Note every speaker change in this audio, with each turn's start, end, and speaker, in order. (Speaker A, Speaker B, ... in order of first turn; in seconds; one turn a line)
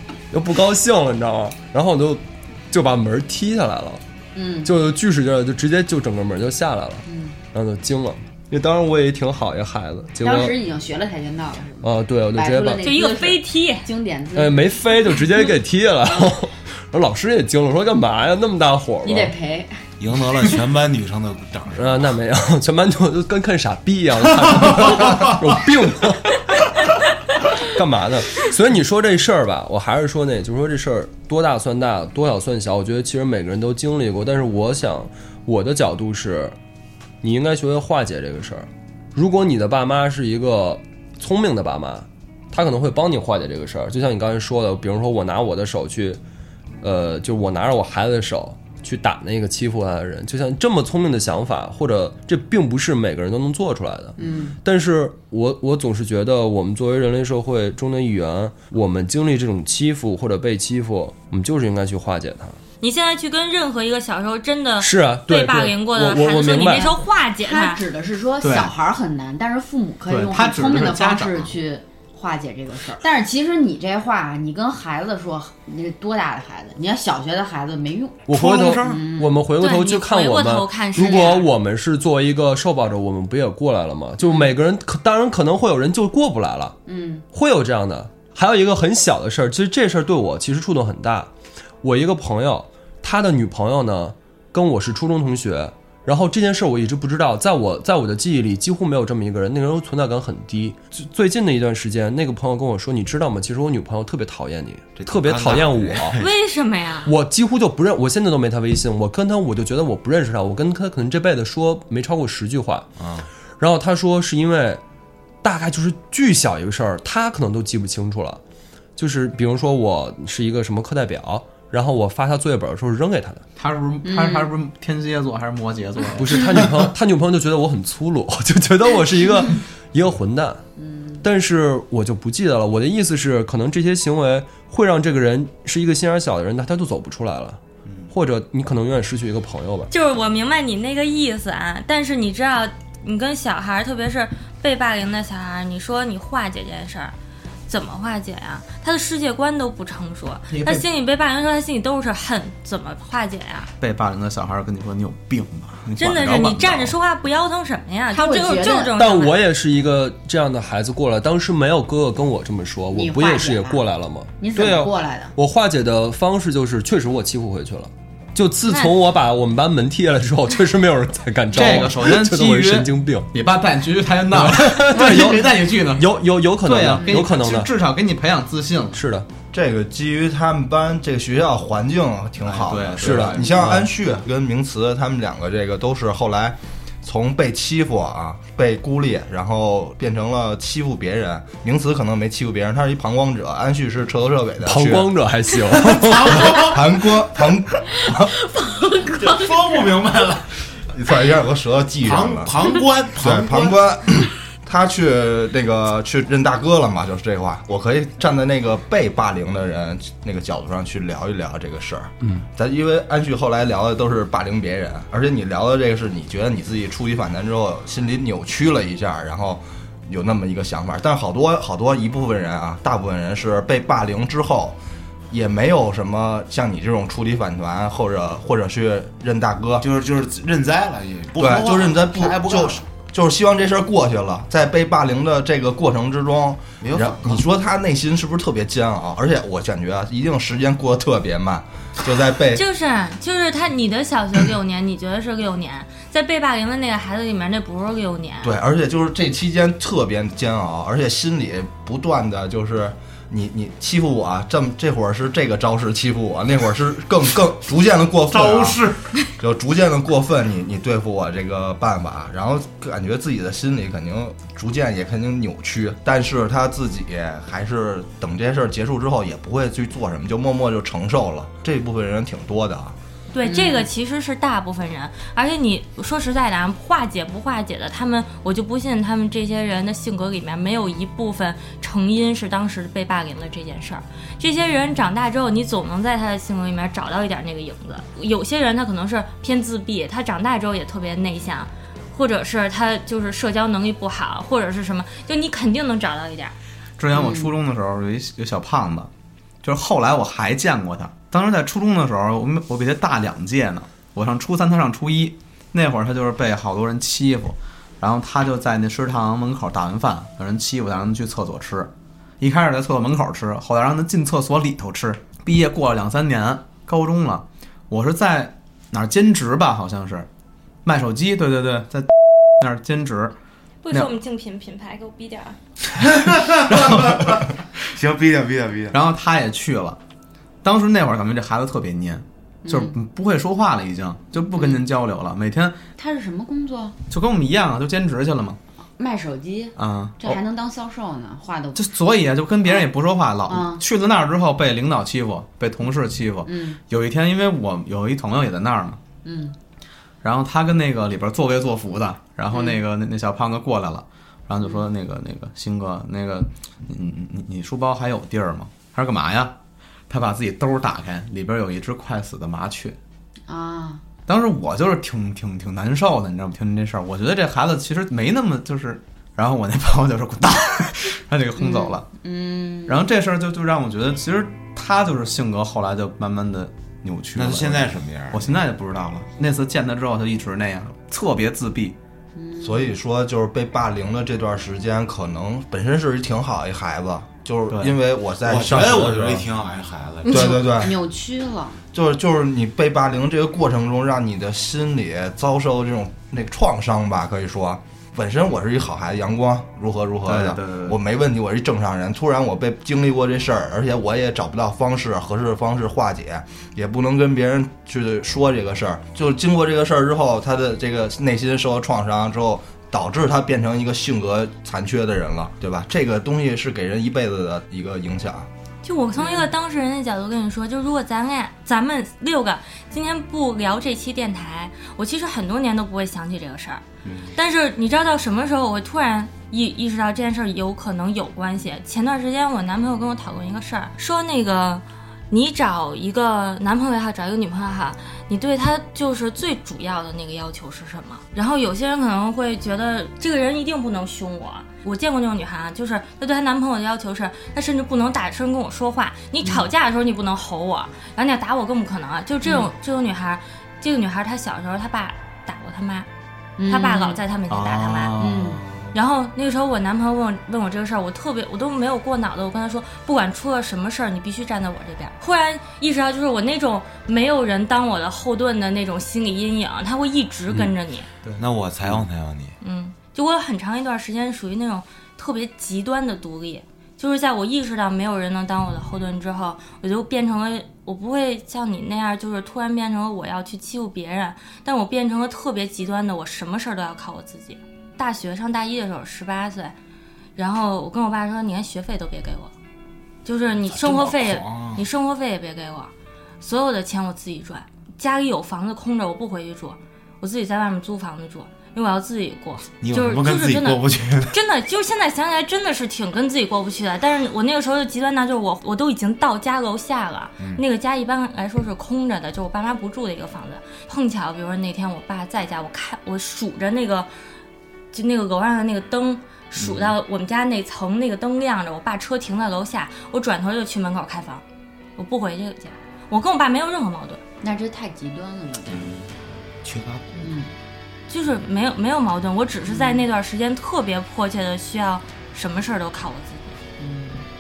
Speaker A: 0.3-4.0
Speaker B: 4.3-4.7
Speaker A: 4.6-10.6
Speaker B: 7.1-7.4
Speaker B: 10.2-14.8
Speaker A: 11.8-12.9
Speaker C: 12.8-13.9
Speaker A: 14.3-19.3
Speaker B: 19.0-19.8
Speaker D: 20.0-22.2
Speaker A: 21.8-36.6
Speaker A: 37.2-46.2
Speaker A: 46.8-62.6
Speaker B: 54.2-54.6
Speaker C: 62.8-67.8
Speaker A: 64.8-67.0
Speaker B: 67.4-78.3
Speaker E: 68.4-68.7
Speaker E: 70.1-71.5
Speaker A: 78.3-86.8
Speaker D: 78.3-79.0
Speaker B: 78.8-79.3
Speaker C: 79.6-81.5
Speaker B: 81.0-81.4
Speaker B: 84.2-84.5
Speaker B: 86.9-87.2
Speaker A: 87.3-91.3
Speaker A: 91.8-106.2
Speaker D: 105.0-106.3
Speaker C: 106.2-107.1
Speaker A: 107.0-112.9
Speaker D: 113.0-113.3
Speaker A: 113.6-114.8
Speaker A: 115.4-118.4
Speaker A: 119.0-123.4
Speaker E: 123.6-126.8
Speaker B: 124.0-124.5
Speaker A: 126.2-130.6
Speaker B: 130.8-131.2
Speaker A: 131.2-139.9
Speaker C: 139.9-147.2
Speaker C: 147.7-153.7
Speaker E: 150.5-150.9
Speaker E: 153.8-157.0
Speaker C: 156.0-159.4
Speaker B: 158.1-159.0
Speaker A: 158.9-173.3
Speaker B: 162.9-163.8
Speaker B: 164.4-165.3
Speaker C: 168.7-168.9
Speaker E: 171.5-179.0
Speaker A: 174.3-177.7
Speaker A: 178.9-179.3
Speaker F: 179.5-195.1
Speaker E: 182.4-183.8
Speaker A: 183.0-183.9
Speaker A: 194.6-196.6
Speaker D: 195.7-196.8
Speaker F: 196.4-198.3
Speaker D: 199.0-200.5
Speaker F: 200.9-202.5
Speaker D: 202.0-203.8
Speaker F: 203.2-224.8
Speaker F: 225.3-229.8
Speaker D: 229.8-232.8
Speaker F: 231.4-242.6
Speaker D: 236.8-237.4
Speaker C: 242.6-248.5
Speaker F: 248.4-258.8
Speaker D: 258.3-259.1
Speaker F: 259.4-272.9
Speaker C: 273.3-296.5
Speaker B: 273.4-273.9
Speaker E: 297.0-299.1
Speaker B: 297.1-297.5
Speaker E: 299.6-320.3
Speaker E: 320.8-322.1
Speaker E: 322.6-323.4
Speaker C: 323.8-325.6
Speaker E: 323.9-324.2
Speaker D: 326.0-329.0
Speaker E: 326.7-327.4
Speaker E: 328.9-330.0
Speaker E: 330.6-335.8
Speaker B: 332.6-333.0
Speaker B: 334.4-334.8
Speaker B: 336.0-337.0
Speaker E: 337.1-338.6
Speaker B: 339.0-341.9
Speaker E: 339.8-340.4
Speaker E: 341.8-349.0
Speaker B: 343.5-343.8
Speaker B: 346.4-346.8
Speaker B: 349.2-349.6
Speaker E: 350.2-359.6
Speaker B: 352.5-352.8
Speaker E: 360.1-363.0
Speaker B: 363.5-364.0
Speaker E: 364.3-372.0
Speaker B: 371.6-373.0
Speaker E: 372.9-382.0
Speaker D: 377.4-378.6
Speaker B: 382.4-383.0
Speaker F: 382.6-389.5
Speaker E: 387.7-388.0
Speaker D: 388.4-390.7
Speaker F: 390.3-391.0
Speaker B: 390.3-391.8
Speaker F: 391.9-418.5
Speaker E: 400.2-401.0
Speaker C: 418.8-426.8
Speaker B: 419.2-419.5
Speaker C: 427.4-456.1
Speaker B: 449.4-449.7
Speaker B: 452.4-452.7
Speaker B: 456.6-457.2
Speaker C: 456.7-458.2
Speaker E: 457.5-458.9
Speaker B: 458.2-458.6
Speaker C: 458.9-471.1
Speaker E: 471.2-472.0
Speaker D: 471.4-472.6
Speaker C: 472.6-489.7
Speaker C: 490.4-492.5
Speaker C: 493.2-517.1
Speaker D: 493.7-494.8
Speaker D: 502.8-504.4
Speaker C: 517.9-524.4
Speaker C: 525.0-527.2
Speaker B: 527.4-528.9
Speaker D: 528.7-529.1
Speaker D: 529.6-530.3
Speaker B: 530.2-530.5
Speaker C: 531.1-536.6
Speaker B: 532.7-533.1
Speaker B: 536.8-537.2